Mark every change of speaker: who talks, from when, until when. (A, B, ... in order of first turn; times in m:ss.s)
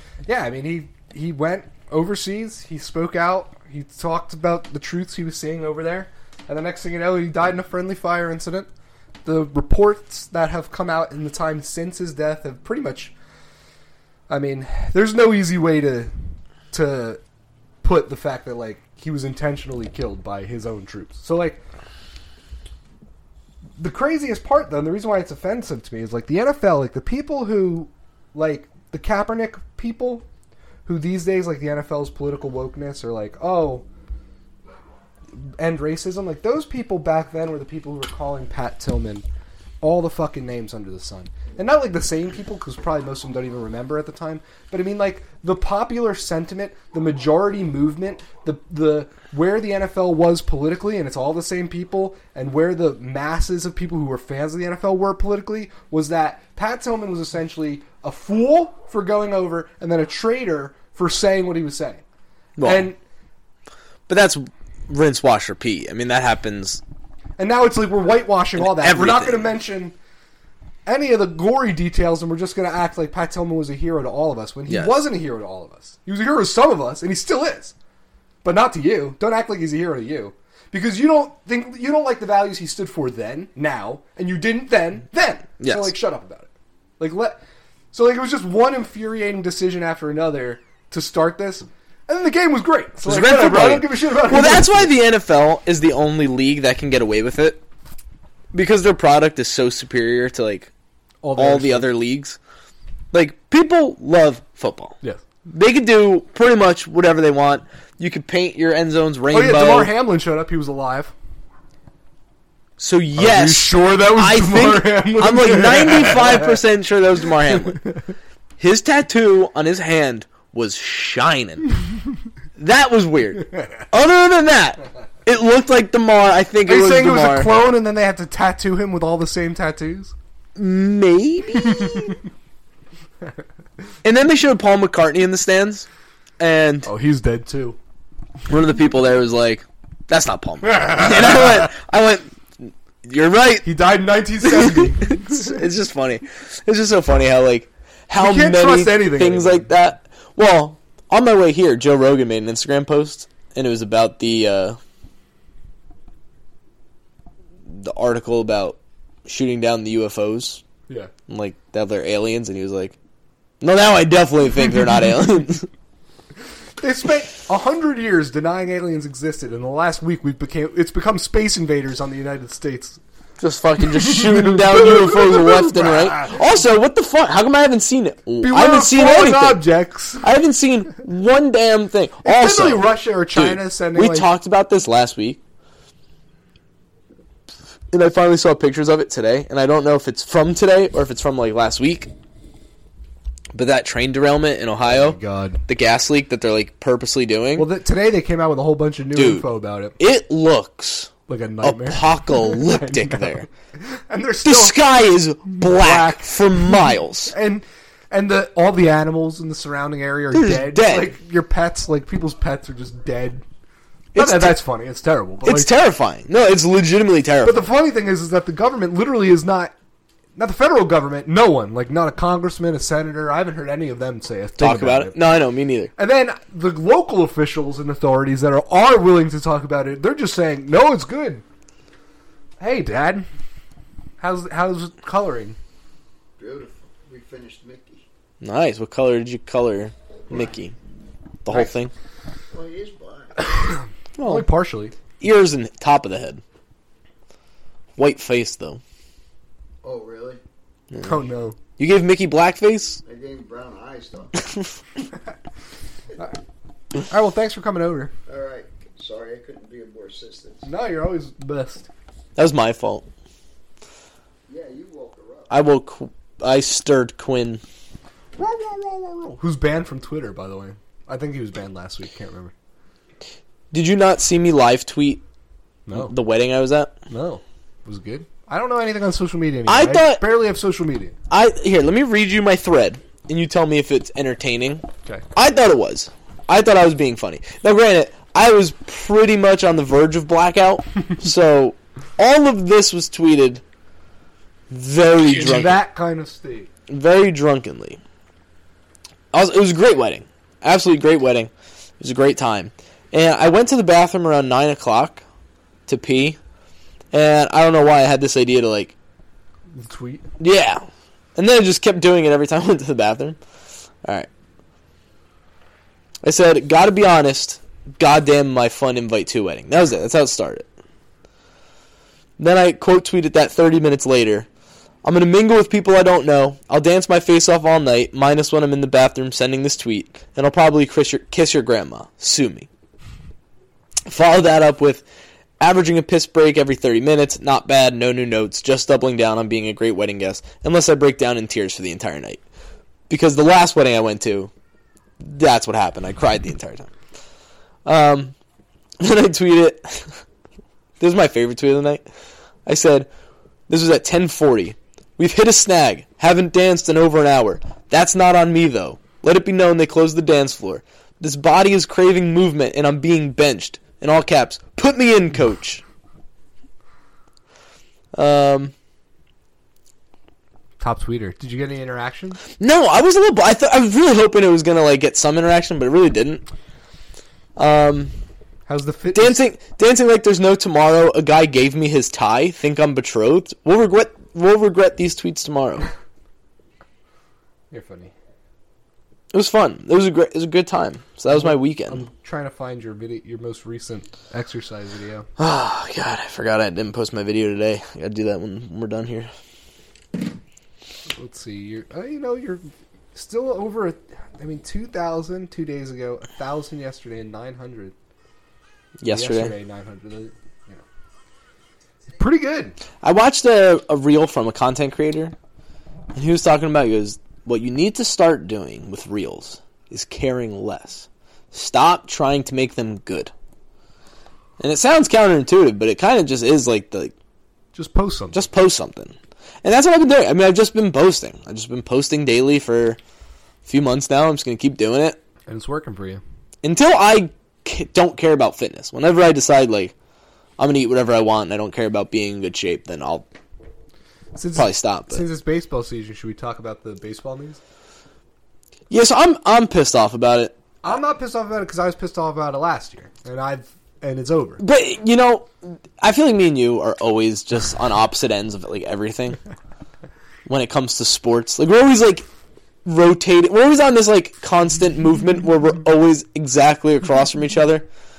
0:00.2-0:08.7 A
0:09.2-0:13.1 A
0:14.3-0:16.1 A
0:16.7-0:17.2 A
0:17.8-0:21.6 A
0:23.8-0:30.2 A
0:30.8-0:33.8 A
0:35.3-0:39.2 A
0:39.8-1:02.0 A
1:02.6-1:02.9 B
1:02.6-1:03.0 A
1:04.1-1:06.8 B
1:07.4-1:09.9 A
1:08.6-1:09.5 B
1:10.8-1:17.7 A
1:14.7-1:15.0 B
1:18.4-1:27.4 A
1:25.6-1:25.9 B
1:27.9-1:34.9 A
1:33.0-1:37.6 B
1:38.5-1:40.7 B
1:41.2-1:41.9 A
1:41.4-1:42.4 B
1:43.1-1:45.0 B
1:45.5-1:49.9 B
1:49.3-1:51.1 A
1:52.8-1:57.8 B
1:53.2-1:56.6 A
1:58.6-2:01.6 B
2:02.6-2:07.5 B
2:06.6-2:10.1 A
2:10.6-2:12.2 B
2:11.7-2:12.1 A
2:14.0-2:15.9 B
2:16.4-2:16.9 B
2:16.8-2:17.8 A
2:18.5-2:23.6 B
2:20.8-2:21.7 A
2:23.6-2:25.6 A
2:24.4-2:34.8 B
2:28.2-2:29.7 A
2:37.7-2:40.6 B
2:41.3-2:43.0 B
2:43.6-2:45.7 B
2:46.8-2:53.0 A
2:53.4-2:59.6 B
2:53.9-2:56.4 A
2:58.4-3:00.3 A
3:00.2-3:05.4 B
3:02.2-3:04.3 A
3:07.9-3:12.1 B
3:13.5-3:17.7 B
3:14.9-3:15.6 A
3:17.6-3:19.9 A
3:19.1-3:19.4 B
3:20.0-3:21.1 B
3:21.3-3:24.8 A
3:21.6-3:23.5 B
3:24.4-3:27.3 B
3:25.5-3:33.4 A
3:30.3-3:31.1 B
3:34.1-3:34.6 B
3:34.1-3:35.7 A
3:35.4-3:37.6 B
3:37.4-3:39.7 A
3:40.4-3:45.2 A
3:44.6-3:45.9 B
3:46.0-3:51.4 A
3:52.6-3:53.2 A
3:54.2-3:55.6 A
3:56.4-3:58.0 C
3:58.4-4:00.7 B
4:01.4-4:01.9 B
4:02.5-4:03.7 C
4:03.4-4:05.0 A
4:04.2-4:04.4 B
4:05.2-4:06.4 B
4:08.0-4:08.8 B
4:09.8-4:10.4 C
4:11.0-4:11.6 A
4:11.8-4:13.0 B
4:13.0-4:14.5 C
4:17.0-4:18.1 A
4:18.3-4:20.7 C
4:20.6-4:21.9 A
4:22.4-4:23.0 B
4:24.5-4:25.5 C
4:25.5-4:27.6 B
4:28.4-4:32.5 A
4:33.7-4:35.2 B
4:35.9-4:36.1 A
4:35.9-4:36.9 B
4:37.1-4:41.1 A
4:39.7-4:40.2 B
4:41.3-4:53.6 B
4:54.7-4:55.8 B
4:55.4-4:56.7 A
4:56.9-4:58.0 B
4:59.3-5:05.2 B
5:05.9-5:06.4 B
5:07.1-5:08.9 B
5:09.7-5:10.2 A
5:10.4-5:13.4 B
5:14.0-5:14.3 B
5:16.2-5:20.7 B
5:22.4-5:24.5 B
5:25.0-5:32.7 B
5:34.0-5:35.0 B
5:35.6-5:42.4 B
5:43.1-5:44.5 B
5:45.2-5:46.9 B
5:47.8-5:48.3 B
5:49.0-5:50.2 B
5:51.0-5:52.0 B
5:52.6-5:53.1 B
5:53.7-6:05.8 B
6:08.1-6:08.7 B
6:10.8-6:12.4 A
6:12.6-6:16.4 B
6:17.6-6:18.1 B
6:18.7-6:19.5 A
6:19.1-6:25.9 B
6:27.7-6:28.1 A
6:29.3-6:32.0 B
6:31.3-6:35.3 A
6:35.4-6:39.3 B
6:41.1-6:47.9 A
6:49.0-6:49.5 B
6:49.1-6:50.8 A
6:52.2-6:52.7 A
6:53.0-6:55.3 B
6:56.1-7:03.3 B
7:04.6-7:07.1 B
7:07.7-7:08.4 A
7:08.3-7:13.0 B
7:13.6-7:15.2 B
7:15.5-7:16.2 A
7:16.6-7:19.9 B
7:20.6-7:23.3 B
7:24.3-7:27.6 A
7:24.6-7:25.2 B
7:28.9-7:30.6 B
7:30.8-7:34.6 A
7:34.6-7:39.4 B
7:40.4-7:42.2 B
7:42.8-7:47.8 B